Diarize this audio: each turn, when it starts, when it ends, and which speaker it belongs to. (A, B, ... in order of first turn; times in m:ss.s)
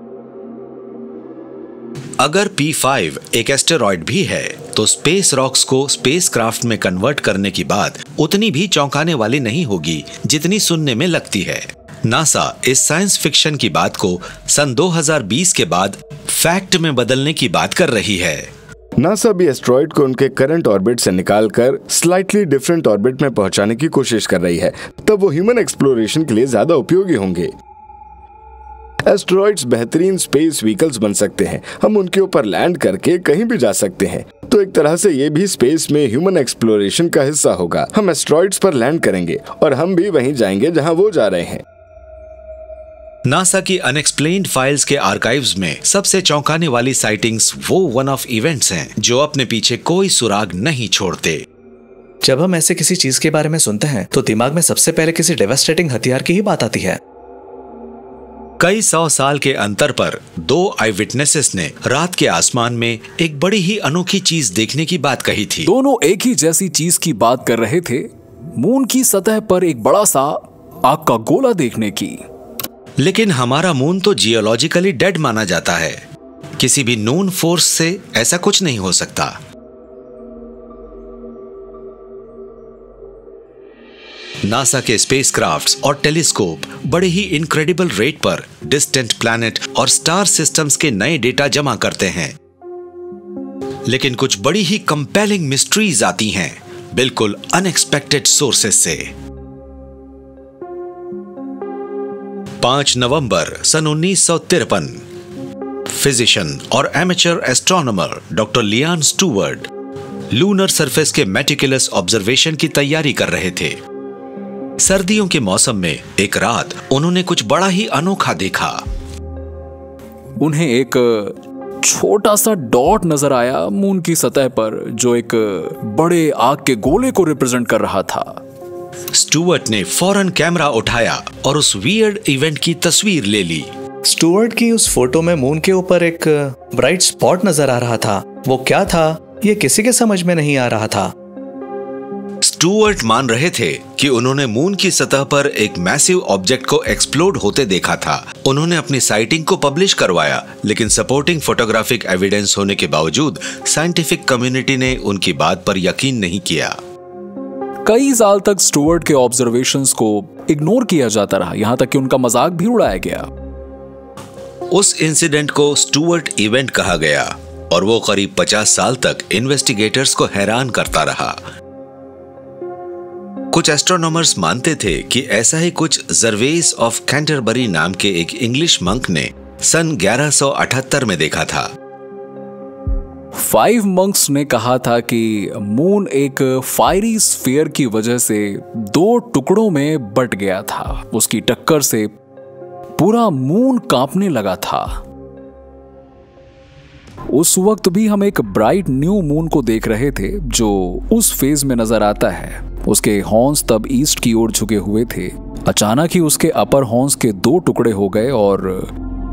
0:02.2-0:18.5 A
0:19.0-0:27.5 B
0:29.1-0:41.6 B
0:43.3-0:51.4 A
0:52.2-0:57.0 C
0:58.6-1:05.7 A
1:05.7-1:12.2 D
1:13.0-1:16.0 A
1:16.6-1:19.4 A
1:24.4-1:32.4 A
1:33.9-1:39.1 A
1:42.6-1:45.0 A
1:45.9-1:49.7 A
1:50.3-1:53.8 A
1:54.8-1:58.8 A
2:00.4-2:08.4 D
2:09.1-2:13.7 A
2:14.0-2:21.1 C
2:22.4-2:36.8 A
2:37.8-2:43.3 D
2:44.7-2:51.4 A
2:53.5-3:01.7 A
3:03.4-3:12.1 D
3:13.0-3:15.0 D
3:17.3-3:28.9 D